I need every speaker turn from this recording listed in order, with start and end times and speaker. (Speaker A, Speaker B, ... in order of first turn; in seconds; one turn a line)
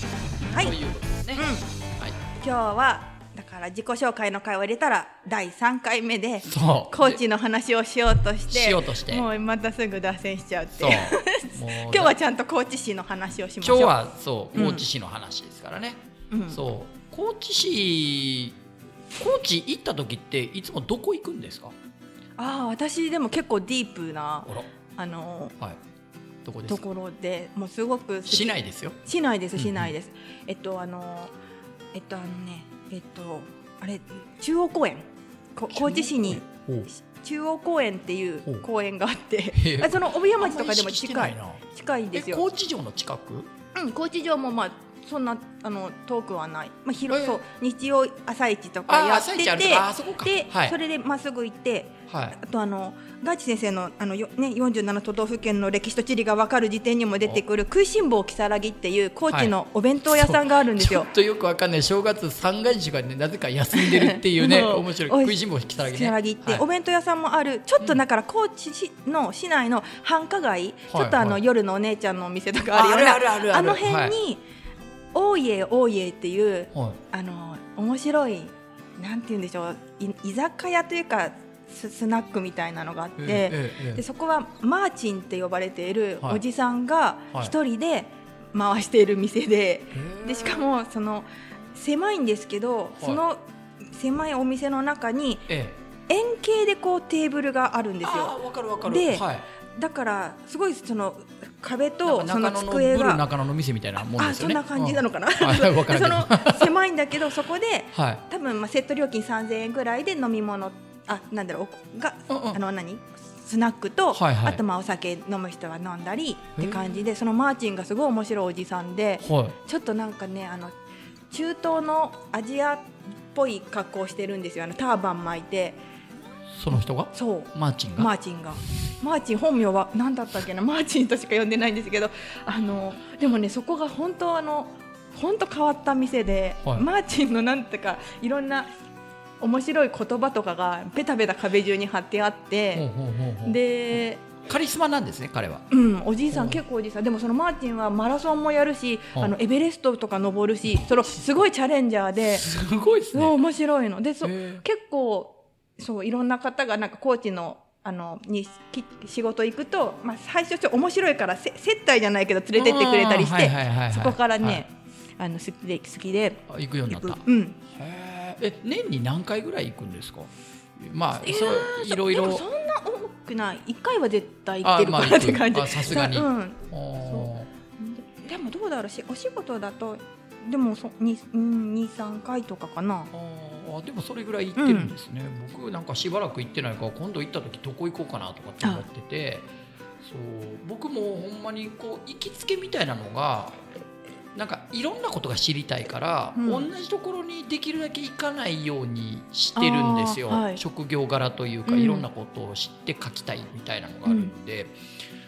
Speaker A: 0.5-0.8
Speaker B: 0.5-2.2
Speaker A: 1.4-1.7
Speaker A: 2.4-14.0
Speaker B: 6.5-7.2
Speaker B: 8.5-9.2
Speaker B: 10.8-12.1
Speaker B: 13.6-18.6
Speaker A: 14.5-14.9
Speaker A: 16.3-16.6
Speaker B: 19.2-21.7
Speaker A: 22.4-25.6
Speaker B: 26.4-26.9
Speaker A: 26.7-31.3
Speaker B: 28.3-29.0
Speaker B: 29.5-29.9
Speaker A: 31.9-42.5
Speaker B: 35.7-36.9
Speaker B: 39.5-41.6
Speaker B: 42.1-43.5
Speaker A: 43.8-61.1
Speaker B: 47.1-47.4
Speaker B: 48.9-50.8
Speaker B: 52.1-52.4
Speaker B: 59.3-66.7
Speaker A: 63.7-74.4
Speaker B: 70.9-71.4
Speaker B: 72.7-74.2
Speaker A: 75.1-95.5
Speaker B: 76.7-77.0
Speaker B: 83.2-84.0
Speaker B: 89.9-90.7
Speaker B: 95.5-95.8
Speaker A: 96.1-103.2
Speaker B: 98.0-99.5
Speaker B: 102.0-106.7
Speaker A: 104.2-120.7
Speaker B: 107.9-108.2
Speaker B: 112.3-112.6
Speaker B: 114.1-114.6
Speaker B: 116.6-116.9
Speaker B: 119.2-119.6
Speaker A: 121.3-125.8
Speaker B: 126.5-128.1
Speaker A: 127.1-138.7
Speaker A: 139.4-142.9
Speaker B: 142.8-143.6
Speaker A: 143.4-144.2
Speaker B: 144.4-145.7
Speaker A: 145.7-152.5
Speaker B: 146.3-146.6
Speaker B: 152.3-153.3
Speaker A: 153.1-167.6
Speaker B: 154.2-154.6
Speaker B: 162.5-164.6
Speaker B: 166.5-167.2
Speaker B: 167.7-172.4
Speaker A: 171.2-183.1
Speaker B: 174.6-177.5
Speaker B: 183.1-189.5
Speaker A: 184.6-184.9
Speaker B: 190.0-193.6
Speaker B: 194.3-204.8
Speaker A: 196.4-196.7
Speaker A: 199.6-200.6
Speaker A: 201.7-202.1
Speaker A: 204.1-204.3